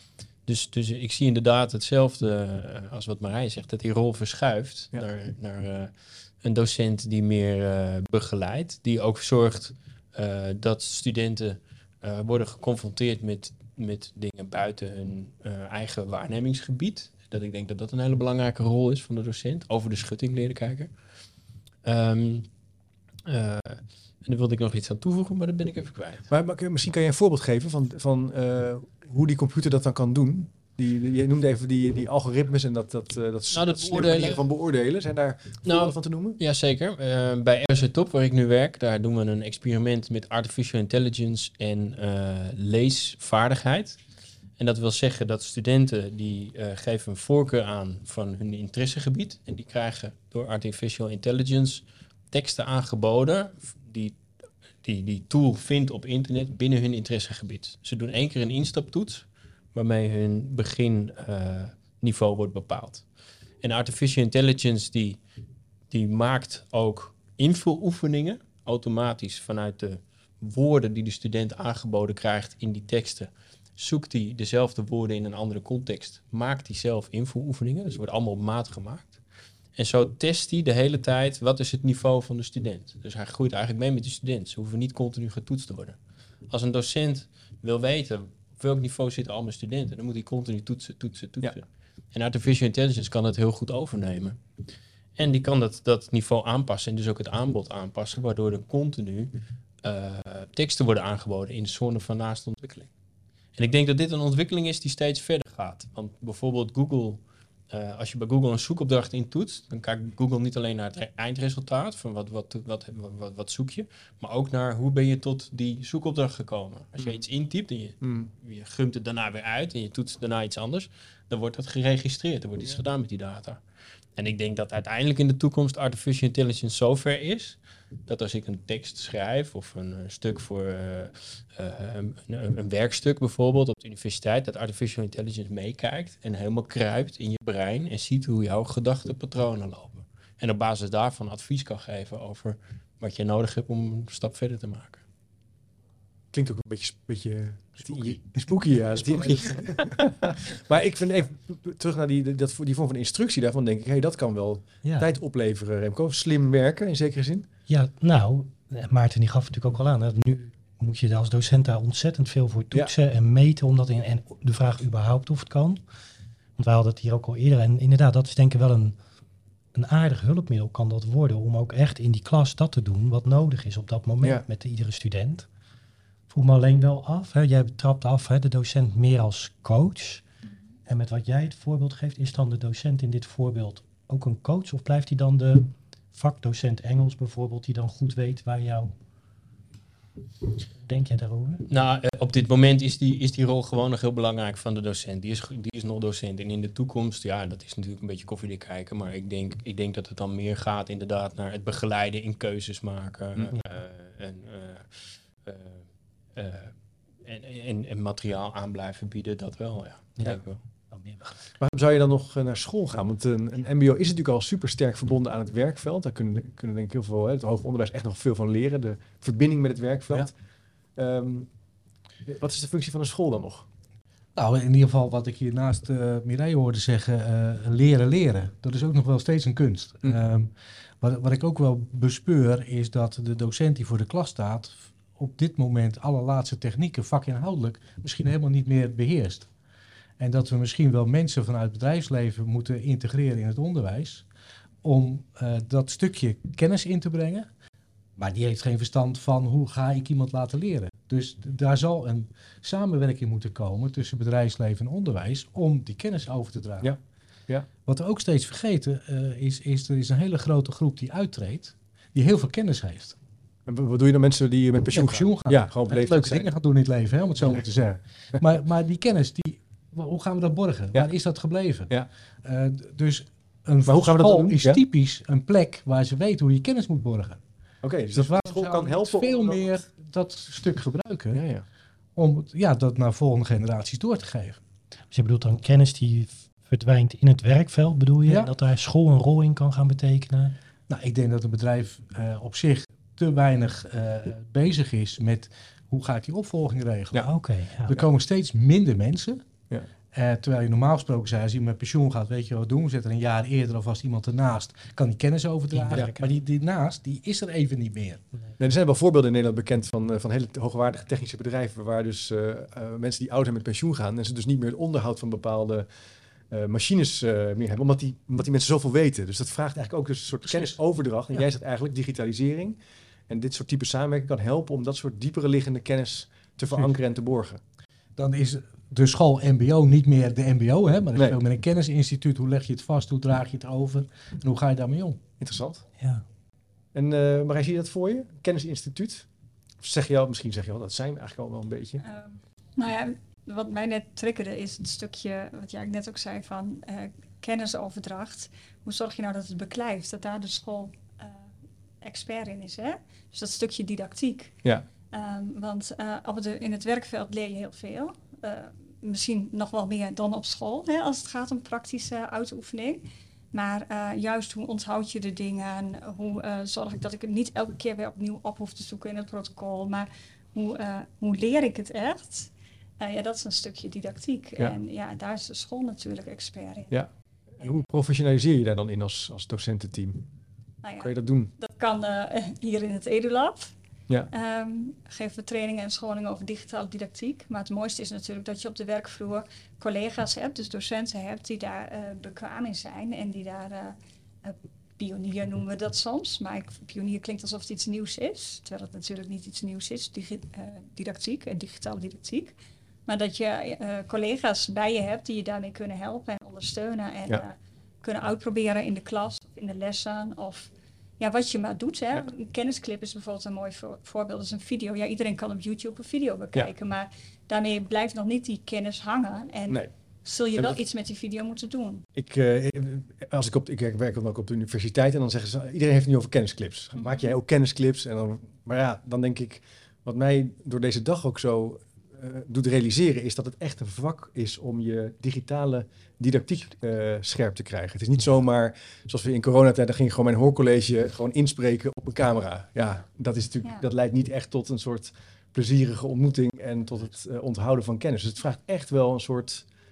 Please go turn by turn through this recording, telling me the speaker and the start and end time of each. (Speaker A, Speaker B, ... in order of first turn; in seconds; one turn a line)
Speaker A: 0.5-20.9
Speaker A: 21.8-22.5
Speaker A: 23.3-26.3
Speaker B: 26.3-36.4
Speaker A: 33.5-34.5
Speaker A: 35.6-44.0
Speaker A: 44.6-54.2
Speaker A: 54.8-63.0
Speaker A: 63.6-65.2
Speaker A: 65.9-79.2
Speaker A: 79.8-86.0
Speaker A: 86.5-94.4
Speaker A: 95.2-102.9
Speaker A: 103.5-107.2
Speaker A: 107.7-123.6
Speaker B: 118.0-118.3
Speaker A: 124.2-145.0
Speaker B: 146.3-157.5
Speaker A: 149.0-150.1
Speaker C: 154.8-155.1
Speaker C: 157.7-165.8
Speaker C: 166.6-169.0
Speaker C: 169.7-175.5
Speaker C: 176.3-180.2
Speaker C: 180.9-188.9
Speaker C: 190.9-191.7
Speaker A: 191.7-210.6
Speaker C: 210.9-211.3
Speaker B: 211.6-220.3
Speaker B: 221.0-221.5
Speaker B: 222.3-223.7
Speaker D: 224.3-239.5
Speaker D: 240.2-244.3
Speaker D: 244.8-247.5
Speaker D: 248.2-256.9
Speaker B: 256.8-257.7
Speaker D: 257.9-263.2
Speaker B: 263.7-266.5
Speaker D: 264.9-277.4
Speaker B: 273.9-274.8
Speaker B: 277.8-279.6
Speaker D: 278.1-281.4
Speaker B: 281.3-281.6
Speaker D: 282.2-284.6
Speaker C: 285.1-290.6
Speaker D: 288.3-288.5
Speaker D: 290.9-297.3
Speaker C: 297.2-298.0
Speaker D: 297.9-299.4
Speaker D: 300.1-308.2
Speaker C: 305.8-306.2
Speaker B: 308.6-315.9
Speaker B: 316.5-322.8
Speaker D: 320.5-320.8
Speaker B: 323.3-327.6
Speaker D: 328.2-335.2
Speaker B: 335.4-335.9
Speaker C: 336.0-336.2
Speaker B: 336.9-339.3
Speaker B: 339.8-342.0
Speaker E: 342.0-351.4
Speaker E: 352.0-377.0
Speaker B: 376.9-380.3
Speaker E: 380.8-383.7
Speaker B: 381.0-381.5
Speaker E: 384.3-402.6
Speaker E: 403.1-422.1
Speaker B: 422.1-449.7
Speaker E: 427.0-427.3